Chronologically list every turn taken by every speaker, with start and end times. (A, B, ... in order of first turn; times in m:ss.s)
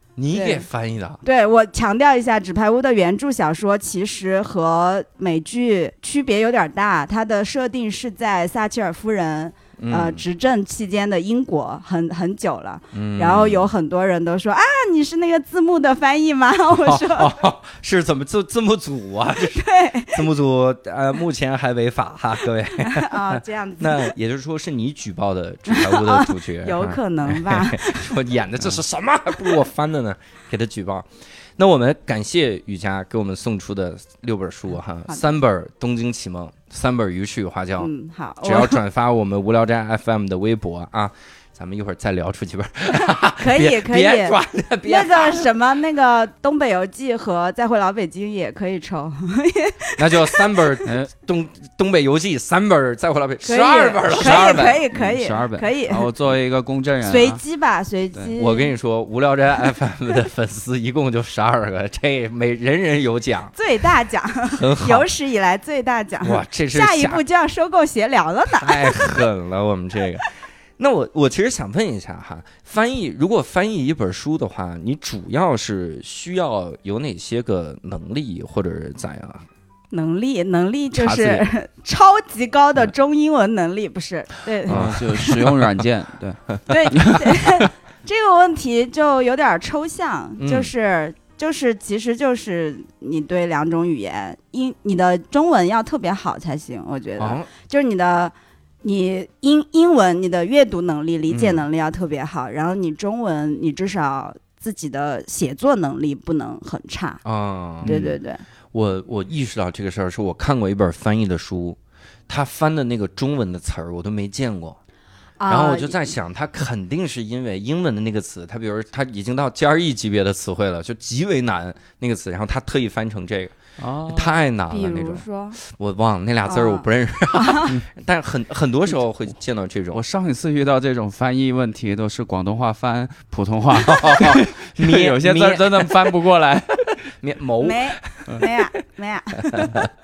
0:00.2-0:01.2 A
0:00.3-0:00.7 B
0:01.2-0:17.3 B
0:09.8-0:10.2 A
0:12.9-0:13.7 A
0:16.7-0:31.1 A
0:19.5-0:20.2 B
0:22.8-0:24.1 B
0:25.7-0:28.2 B
0:31.6-0:37.9 A
0:37.8-0:38.8 B
0:38.4-0:45.5 A
0:43.4-0:50.8 B
0:50.0-0:54.8 A
0:53.4-0:56.1 B
0:54.2-0:57.4 C
0:57.0-0:58.7 B
0:58.4-1:03.5 A
1:03.6-1:09.0 B
1:04.5-1:05.1 A
1:06.2-1:07.2 A
1:08.6-1:10.3 A
1:10.8-1:19.5 A
1:19.9-1:25.3 B
1:21.0-1:21.4 A
1:24.7-1:25.4 A
1:24.7-1:27.6 C
1:26.7-1:47.2 B
1:30.4-1:30.7 A
1:37.2-1:37.5 A
1:41.3-1:41.6 A
1:47.2-1:48.2 A
1:47.8-1:48.4 B
1:48.7-1:54.8 A
1:55.4-1:56.1 B
1:55.5-2:03.5 A
2:03.8-2:04.4 C
2:04.1-2:10.0 A
2:04.7-2:05.6 B
2:06.5-2:07.8 B
2:09.9-2:16.9 C
2:13.8-2:16.1 A
2:17.1-2:18.3 A
2:17.6-2:19.8 B
2:19.5-2:19.9 A